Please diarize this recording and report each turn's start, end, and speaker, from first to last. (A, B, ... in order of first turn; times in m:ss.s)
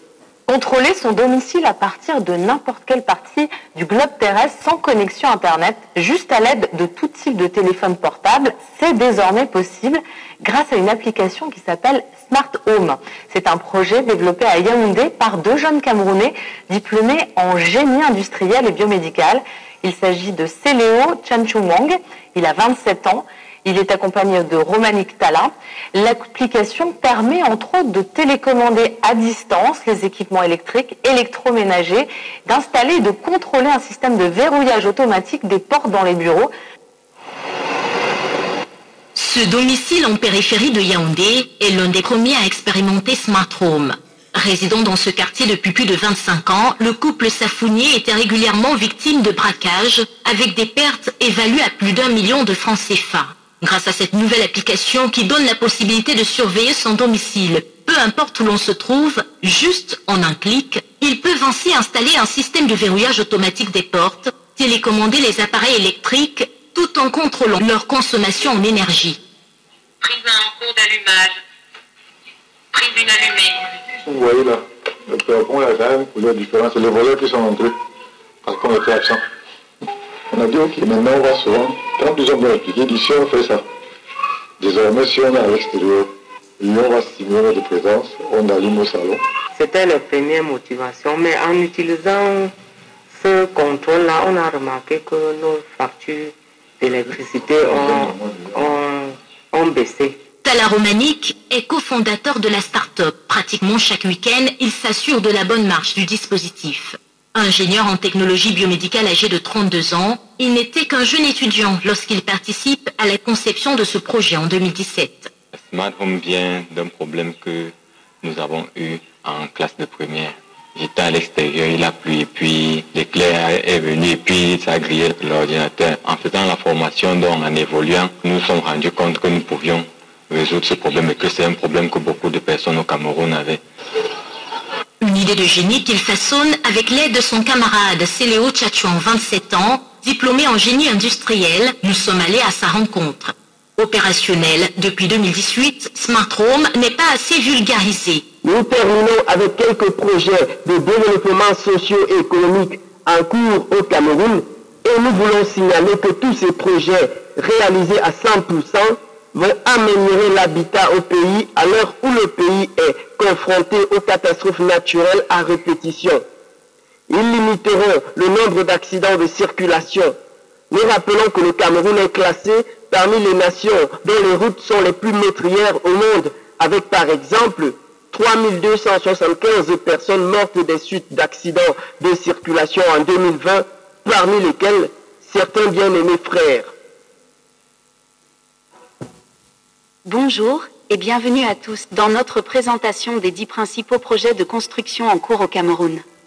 0:00.5-0:36.5 A
0:39.2-1:09.2 B
1:10.0-1:11.4 C
1:12.7-1:13.8 C
1:14.0-1:17.8 D
1:18.4-1:19.2 D
1:20.3-1:23.7 D
1:24.6-1:29.2 D
1:29.6-1:32.5 E
1:33.1-1:40.2 E
1:37.2-1:38.8 D
1:40.4-1:55.3 B
1:55.6-2:13.6 F
2:15.0-2:28.2 B
2:28.4-2:46.2 G
2:47.1-2:50.2 G
2:50.7-3:06.7 G
3:10.0-3:16.0 H